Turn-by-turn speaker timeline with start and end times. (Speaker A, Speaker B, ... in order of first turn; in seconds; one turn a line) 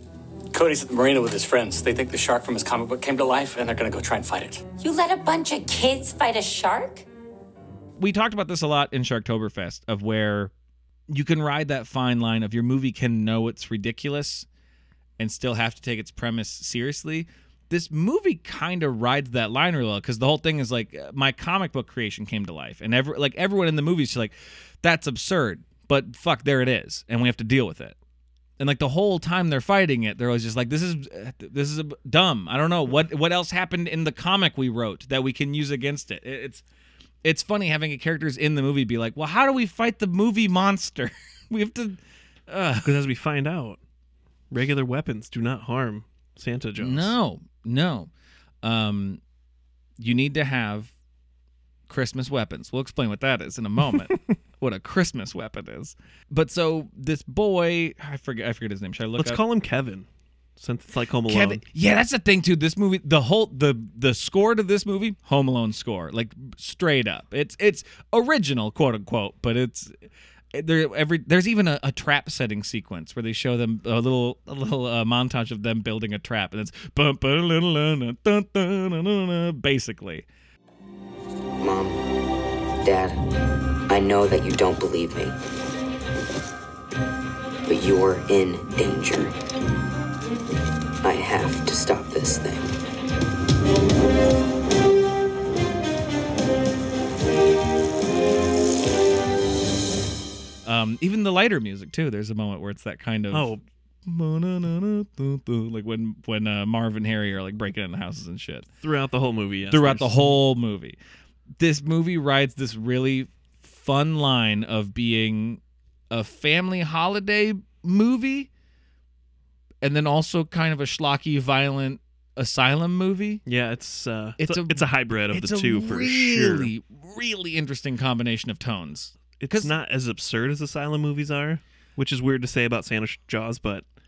Speaker A: 0.5-4.6
Speaker B: 4.8-7.0
Speaker C: 8.0-10.5
Speaker C: 11.1-14.5
Speaker C: 15.2-28.0
Speaker C: 28.6-36.6
Speaker C: 37.2-43.0
Speaker D: 42.8-43.8
Speaker D: 44.5-47.1
Speaker C: 46.8-48.1
Speaker C: 48.6-49.2
Speaker C: 50.0-50.9
Speaker C: 51.9-59.4
Speaker D: 59.2-61.6
Speaker C: 61.3-69.9
Speaker C: 70.5-80.3
Speaker E: 81.6-82.0
Speaker E: 82.8-83.2
Speaker E: 83.9-85.4
Speaker E: 87.7-89.3
Speaker E: 91.0-92.7
Speaker C: 100.7-108.7
Speaker D: 103.3-103.6
Speaker D: 108.8-110.3
Speaker C: 109.7-111.0
Speaker C: 111.6-118.5
Speaker C: 119.8-123.4
Speaker D: 123.5-126.7
Speaker C: 124.4-129.7
Speaker D: 129.4-133.9